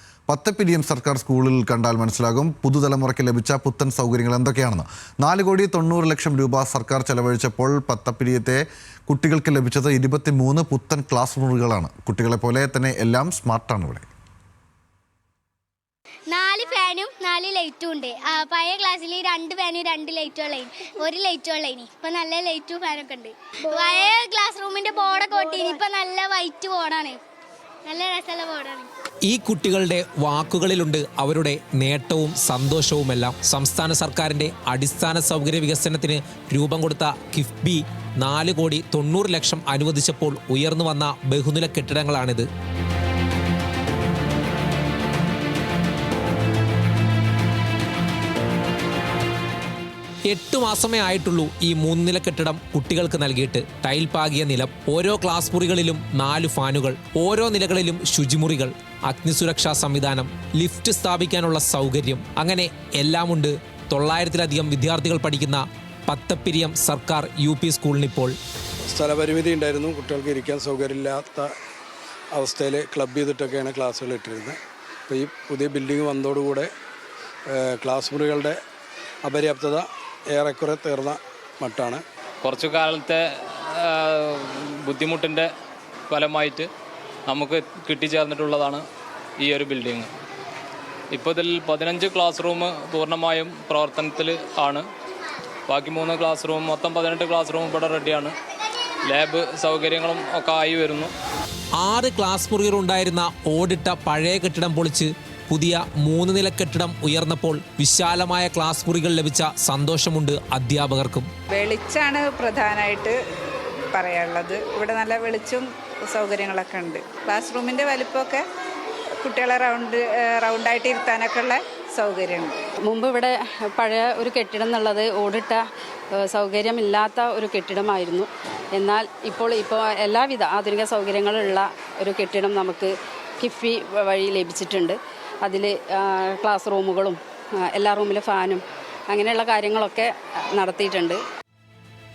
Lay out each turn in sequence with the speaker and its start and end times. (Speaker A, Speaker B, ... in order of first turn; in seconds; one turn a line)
Speaker A: 0.3-14.1
Speaker B: 16.3-27.2
Speaker B: 27.8-28.9
Speaker C: 29.3-42.5
Speaker C: 50.3-68.3
Speaker D: 68.9-71.5
Speaker D: 72.3-76.7
Speaker D: 77.5-78.6
Speaker D: 79.2-82.0
Speaker E: 82.4-85.5
Speaker E: 86.1-86.7
Speaker E: 87.3-88.8
Speaker E: 89.4-90.1
Speaker E: 91.1-94.9
Speaker E: 95.7-98.3
Speaker E: 99.1-101.1
Speaker C: 101.8-111.3
Speaker F: 111.5-113.2
Speaker F: 113.9-118.4
Speaker F: 119.2-122.5
Speaker G: 122.9-125.6
Speaker G: 126.2-141.2